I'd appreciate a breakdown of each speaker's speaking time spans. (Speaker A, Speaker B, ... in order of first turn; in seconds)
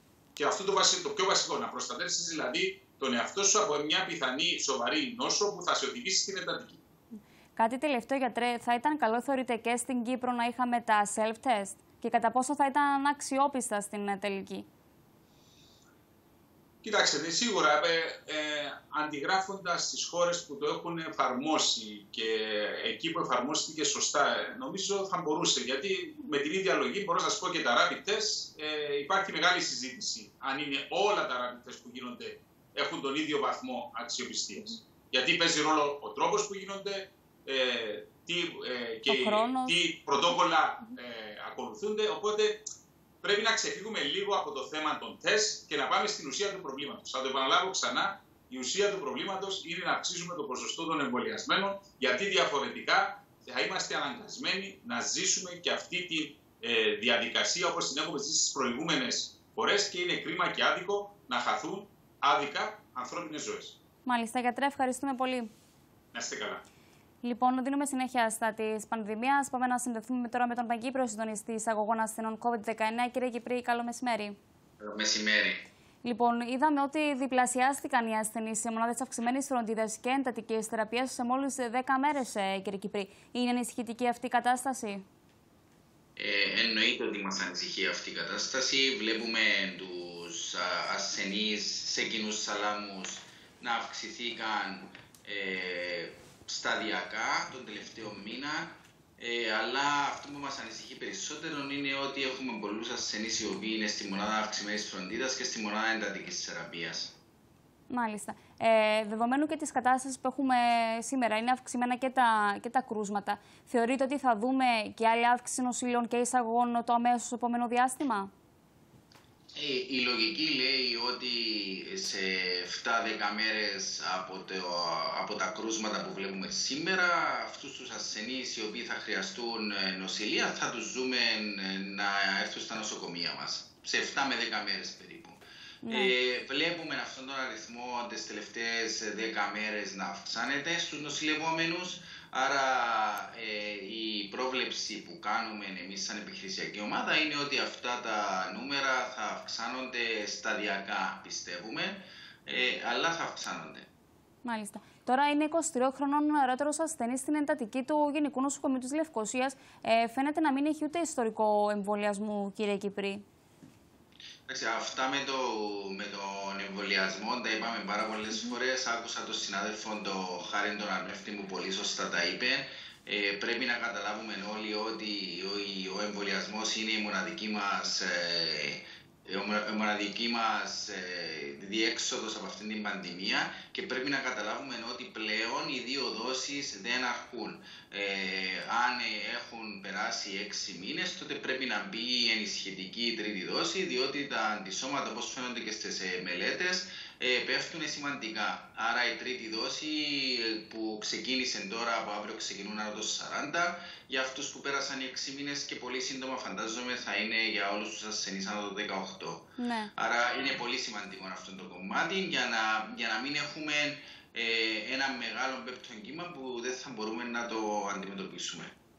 Speaker A: 0.3-6.8, 16.8-42.6, 43.2-63.7, 66.1-66.6
Speaker B: 7.5-14.7, 39.1-39.8, 64.0-65.5, 67.2-74.4, 76.0-85.0, 107.9-118.3, 135.8-136.1, 154.4-163.2, 209.6-209.9
Speaker C: 74.8-75.6, 86.2-107.2, 119.5-153.9, 164.5-218.7